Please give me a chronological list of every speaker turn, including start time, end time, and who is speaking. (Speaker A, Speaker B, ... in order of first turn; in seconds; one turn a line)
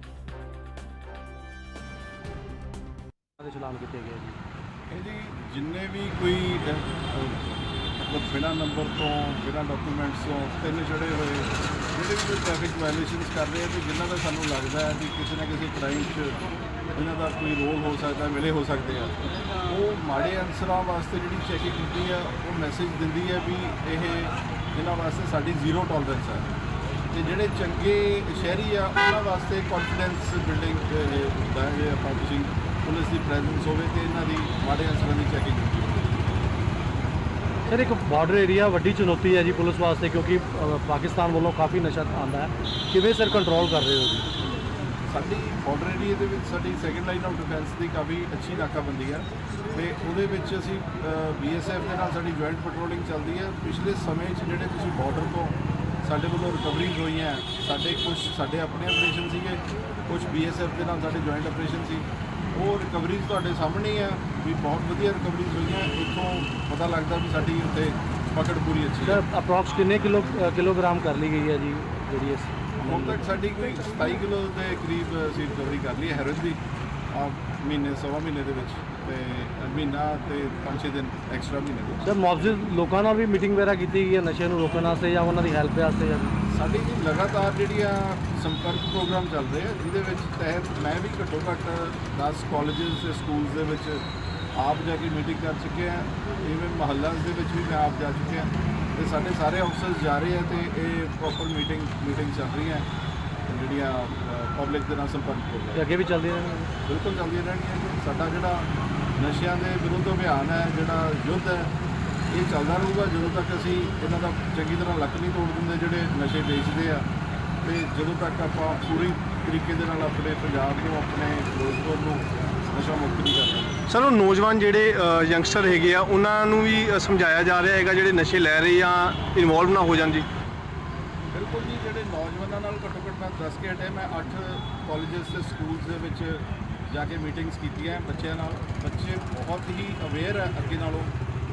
Speaker A: 3.4-4.4
Speaker B: 4.9-16.4
Speaker B: 16.9-26.5
Speaker B: 27.1-36.0
Speaker A: 37.7-44.3
Speaker B: 45.1-69.2
Speaker A: 69.0-73.2
Speaker B: 72.8-76.6
Speaker B: 77.1-82.0
Speaker A: 82.0-86.3
Speaker B: 86.5-94.0
Speaker B: 94.6-102.8
Speaker B: 103.5-105.8
Speaker A: 105.8-106.7
Speaker B: 106.8-111.7
Speaker B: 112.3-117.1
Speaker B: 117.6-123.8
Speaker C: 123.9-130.3
Speaker B: 131.3-141.1